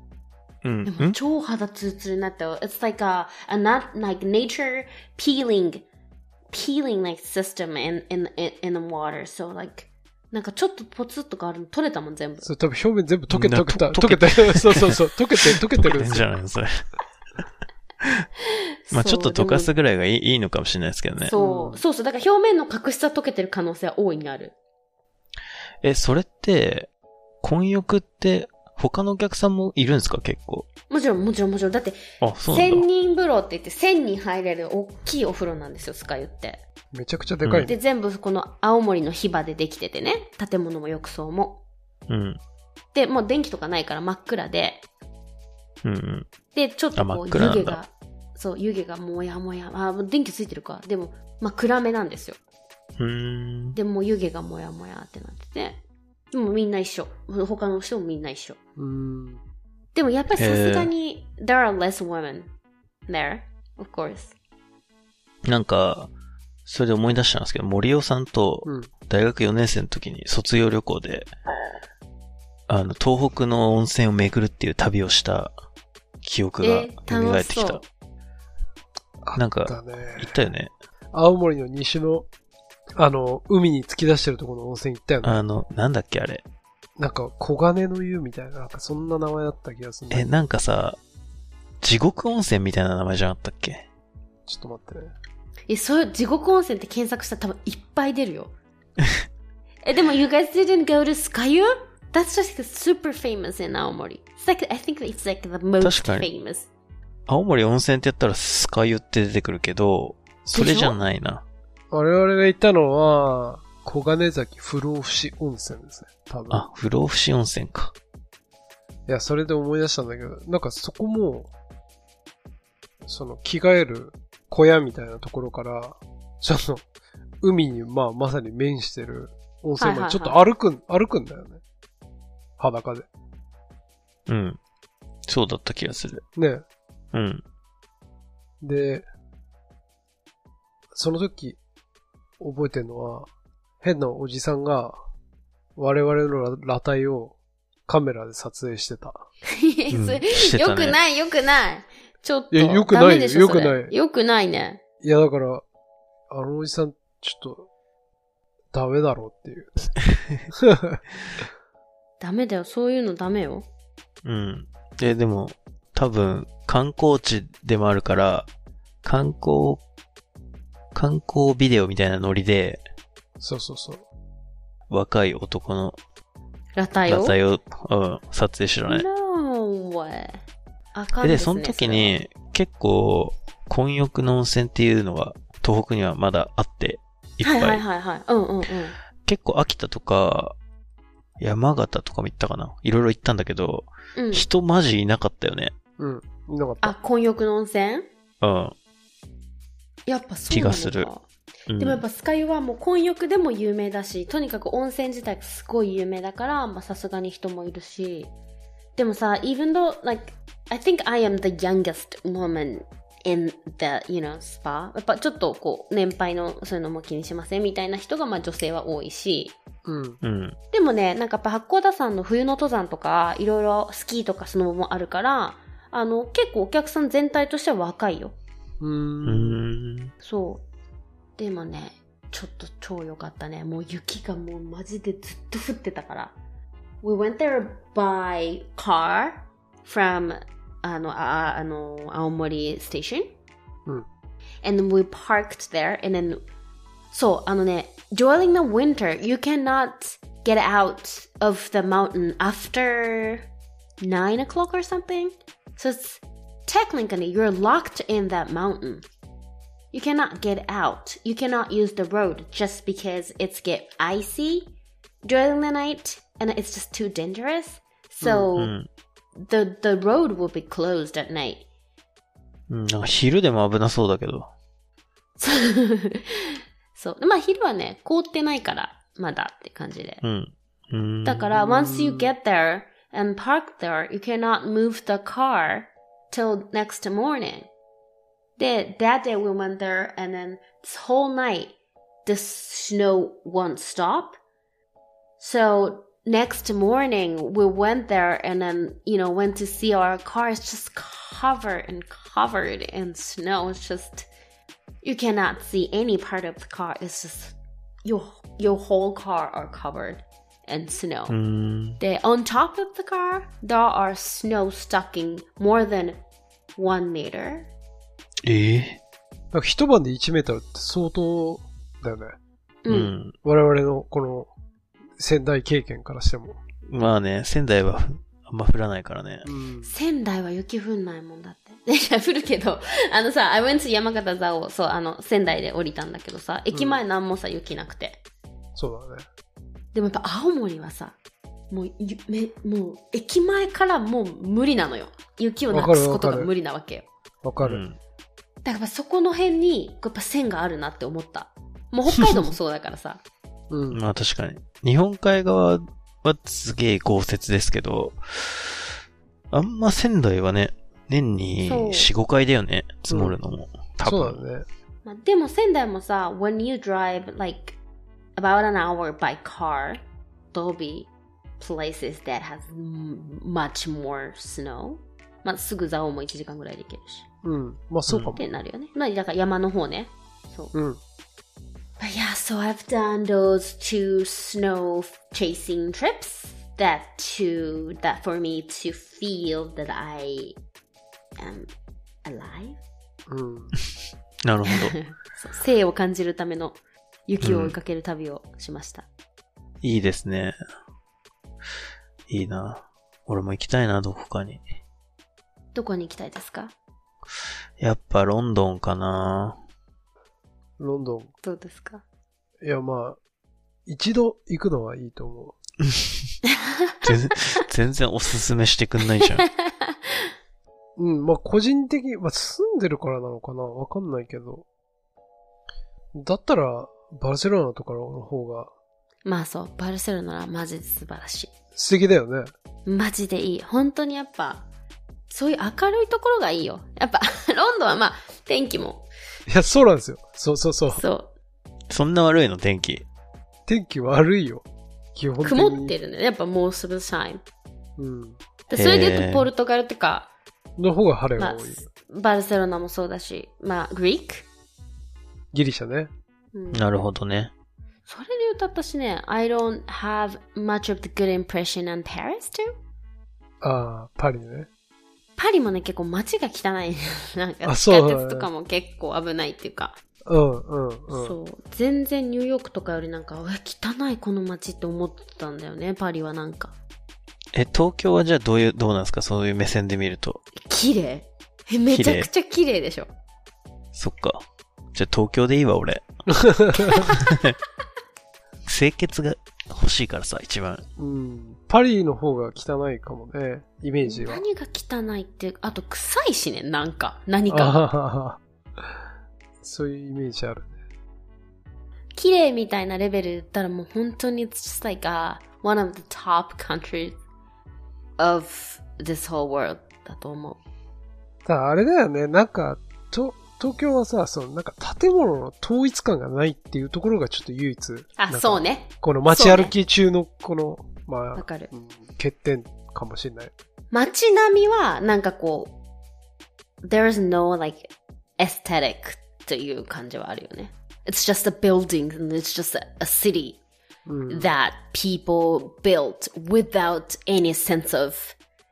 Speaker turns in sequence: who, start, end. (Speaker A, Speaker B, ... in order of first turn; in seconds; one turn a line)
Speaker A: 0.6-1.1
Speaker B: 0.8-5.8
Speaker B: 6.5-12.5
Speaker C: 12.4-16.3
Speaker A: 13.3-16.8
Speaker B: 18.6-19.7
Speaker A: 18.9-21.4
Speaker B: 21.2-24.5
Speaker C: 21.4-21.8
Speaker A: 25.8-26.9
Speaker A: 27.4-30.7
Speaker B: 30.9-36.6
Speaker A: 32.2-32.9
Speaker C: 36.9-37.8
Speaker A: 37.4-37.7
Speaker B: 37.7-41.6
Speaker A: 42.1-42.4
Speaker B: 42.9-44.8
Speaker A: 45.8-46.3
Speaker B: 46.5-52.4
Speaker A: 47.0-47.8
Speaker A: 53.0-53.8
Speaker B: 53.8-55.8
Speaker B: 56.3-58.6
Speaker C: 58.8-59.4
Speaker B: 59.9-62.5
Speaker A: 60.4-60.9
Speaker B: 63.1-64.3
Speaker A: 65.5-66.1
Speaker A: 66.7-71.3
Speaker A: 72.7-75.5
Speaker A: 76.2-77.8
Speaker B: 76.6-77.8
Speaker C: 79.2-80.4
Speaker A: 79.3-80.7
Speaker C: 81.1-82.3
Speaker C: 83.0-85.4
Speaker A: 85.2-86.4
Speaker C: 87.0-90.3
Speaker A: 90.1-91.0
Speaker A: 91.8-93.8
Speaker C: 94.5-95.1
Speaker B: 95.7-98.5
Speaker B: 99.8-106.7
Speaker A: 105.8-106.3
Speaker A: 107.3-111.5
Speaker B: 110.5-111.0
Speaker C: 111.9-116.7
Speaker A: 116.5-117.9
Speaker C: 119.1-121.5
Speaker C: 123.0-126.8
Speaker C: 127.4-131.6
Speaker B: 129.8-130.4
Speaker C: 132.6-133.1
Speaker A: 134.3-134.6
Speaker A: 135.3-136.2
Speaker C: 136.3-136.6
Speaker A: 137.1-137.4
Speaker C: 138.6-139.0
Speaker C: 140.9-141.6
Speaker C: 142.4-143.3
Speaker C: 143.8-145.0
Speaker C: 145.8-147.3
Speaker C: 147.9-149.2
Speaker B: 149.5-154.8
Speaker A: 149.9-151.0
Speaker C: 152.5-153.9
Speaker C: 155.0-155.6
Speaker C: 156.3-157.7
Speaker C: 158.7-159.9
Speaker A: 160.2-160.4
Speaker C: 160.5-161.0
Speaker B: 162.2-163.7
Speaker A: 164.2-168.5
Speaker A: 169.0-169.8
Speaker A: 170.9-172.8
Speaker C: 173.4-174.0
Speaker A: 174.9-176.0
Speaker B: 176.8-177.3
Speaker A: 177.1-179.1
Speaker B: 178.9-180.4
Speaker B: 180.9-182.2
Speaker A: 181.2-187.8
Speaker B: 187.4-189.0
Speaker A: 189.2-190.5
Speaker A: 191.4-195.7
Speaker B: 194.2-194.5
Speaker C: 196.0-196.9
Speaker B: 196.8-198.1
Speaker A: 198.4-198.8
Speaker B: 200.1-201.2
Speaker A: 200.5-201.1
Speaker A: 201.7-202.0
Speaker B: 201.8-208.3
Speaker B: 209.0-219.5
Speaker C: 219.8-220.2
Speaker A: 220.2-220.6
Speaker B: 220.7-228.3
Speaker C: 228.8-229.6
Speaker A: 229.2-230.1
Speaker B: 230.2-230.7
Speaker B: 231.4-236.3
Speaker B: 237.0-243.3
Speaker B: 244.6-246.4
Speaker B: 247.1-253.5
Speaker B: 254.0-259.0
Speaker B: 259.9-264.7
Speaker B: 265.2-268.7
Speaker C: 268.2-268.5
Speaker A: 268.6-268.9
Speaker B: 269.4-271.7
Speaker A: 272.7-274.5
Speaker B: 275.4-280.2
Speaker A: 280.2-281.5
Speaker B: 281.2-287.7
Speaker C: 281.6-282.3
Speaker B: 288.6-291.7
Speaker B: 292.2-294.4
Speaker B: 295.4-304.3
Speaker B: 305.0-311.3
Speaker A: 311.3-312.0
Speaker B: 312.0-316.2
Speaker B: 316.8-317.7
Speaker A: 318.4-319.0
Speaker C: 319.5-322.4
Speaker B: 322.8-323.1
Speaker A: 322.9-323.3
Speaker C: 323.4-324.5
Speaker C: 325.2-326.6
Speaker A: 326.9-329.5
Speaker C: 329.4-329.9
Speaker B: 329.8-338.2
Speaker C: 336.7-337.0
Speaker C: 338.8-339.2
Speaker B: 339.9-341.2
Speaker B: 341.7-347.1
Speaker C: 345.7-346.5
Speaker C: 347.4-347.8
Speaker A: 347.6-348.0
Speaker B: 348.6-353.2
Speaker C: 353.7-354.0
Speaker A: 353.9-358.9
Speaker A: 359.5-364.4
Speaker B: 361.6-362.1
Speaker C: 363.1-363.4
Speaker C: 364.0-364.7
Speaker B: 365.0-367.8
Speaker B: 368.4-370.0
Speaker B: 370.5-377.2
Speaker C: 377.4-378.4
Speaker A: 378.1-378.4
Speaker B: 378.4-380.7
Speaker C: 380.7-381.0
Speaker B: 382.0-390.5
Speaker B: 391.4-391.7
Speaker B: 392.2-392.8
Speaker C: 393.3-393.7
Speaker A: 394.4-395.0
Speaker B: 394.7-399.1
Speaker A: 397.4-397.8
Speaker A: 399.8-400.6
Speaker A: 402.3-404.6
Speaker B: 405.7-406.7
Speaker A: 407.8-409.6
Speaker C: 410.8-411.3
Speaker B: 411.4-412.0
Speaker C: 412.6-413.2
Speaker C: 413.9-415.6
Speaker B: 416.5-417.1
Speaker A: 417.0-419.5
Speaker B: 419.2-420.3
Speaker C: 421.0-424.6
Speaker C: 426.1-428.7
Speaker B: 429.2-431.5
Speaker C: 431.8-432.5
Speaker B: 432.9-434.6
Speaker B: 435.3-439.0
Speaker C: 439.5-441.0
Speaker B: 440.9-441.3
Speaker A: 441.9-443.0
Speaker C: 443.7-445.9
Speaker B: 445.4-447.4
Speaker C: 448.0-448.4
Speaker B: 448.7-450.3
Speaker A: 448.7-449.5
Speaker C: 450.8-451.9
Speaker B: 451.4-454.5
Speaker C: 455.5-456.1
Speaker B: 456.5-456.9
Speaker A: 456.7-457.5
Speaker B: 458.1-462.7
Speaker C: 463.6-464.7
Speaker B: 465.4-470.0
Speaker C: 467.6-468.5
Speaker C: 470.2-471.3
Speaker B: 471.1-476.8
Speaker A: 477.5-480.4
Speaker B: 480.6-483.1
Speaker A: 481.9-482.3
Speaker A: 483.9-486.1
Speaker C: 486.3-487.0
Speaker B: 486.8-487.2
Speaker A: 486.9-487.6
Speaker A: 488.7-490.8
Speaker C: 491.0-494.4
Speaker B: 494.0-497.8
Speaker C: 497.5-498.9
Speaker C: 499.6-500.8
Speaker B: 502.1-507.2
Speaker B: 508.2-510.6
Speaker C: 511.4-523.5
Speaker B: 518.2-519.7
Speaker B: 521.4-521.7
Speaker B: 523.9-525.8
Speaker B: 526.8-533.6
Speaker C: 534.0-534.5
Speaker B: 534.3-538.4